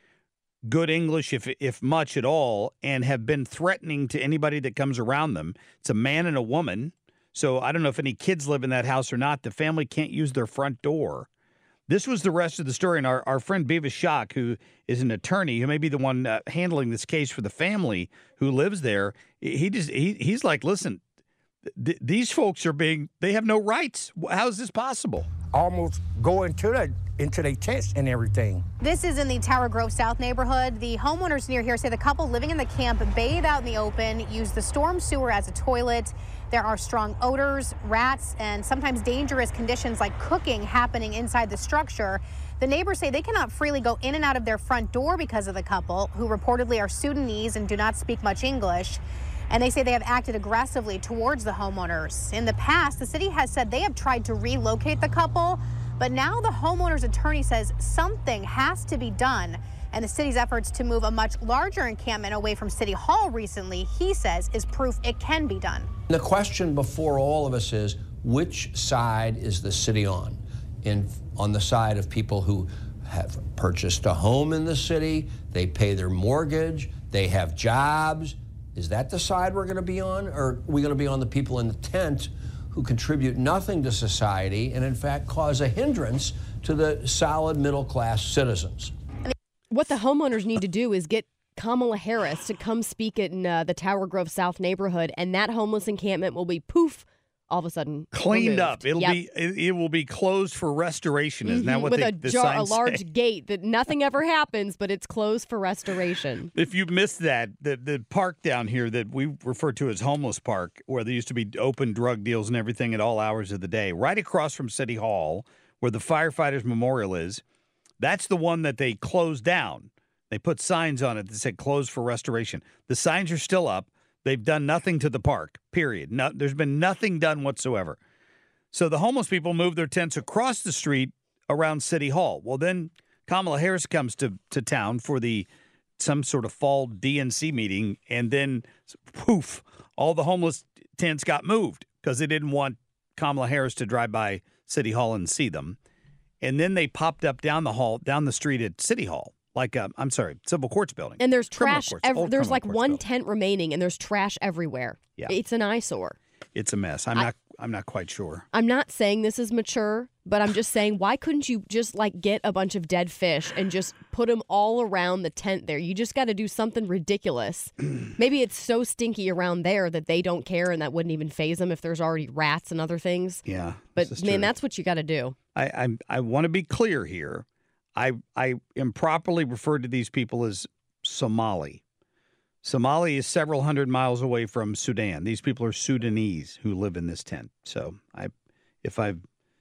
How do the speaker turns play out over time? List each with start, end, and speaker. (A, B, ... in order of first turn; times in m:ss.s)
0:00.6-0:11.3 A
0:11.9-0:21.0 A
0:21.8-0:25.3 A
0:25.5-0:28.6 B
0:28.8-1:05.9 C
1:06.1-1:28.9 D
1:29.7-1:39.2 E
1:38.1-1:43.0 A
1:41.4-1:46.5 E
1:46.5-1:57.4 A
1:58.0-2:08.0 A
2:08.7-2:15.5 A
2:16.0-2:25.8 A
2:26.4-2:33.0 A
2:31.2-2:36.2 E
2:36.5-2:38.4 A
2:38.5-2:53.4 E
2:53.5-2:54.5 A
2:54.0-2:55.4 E
2:55.5-3:01.8 A
3:02.6-3:08.3 A
3:08.8-3:09.2 A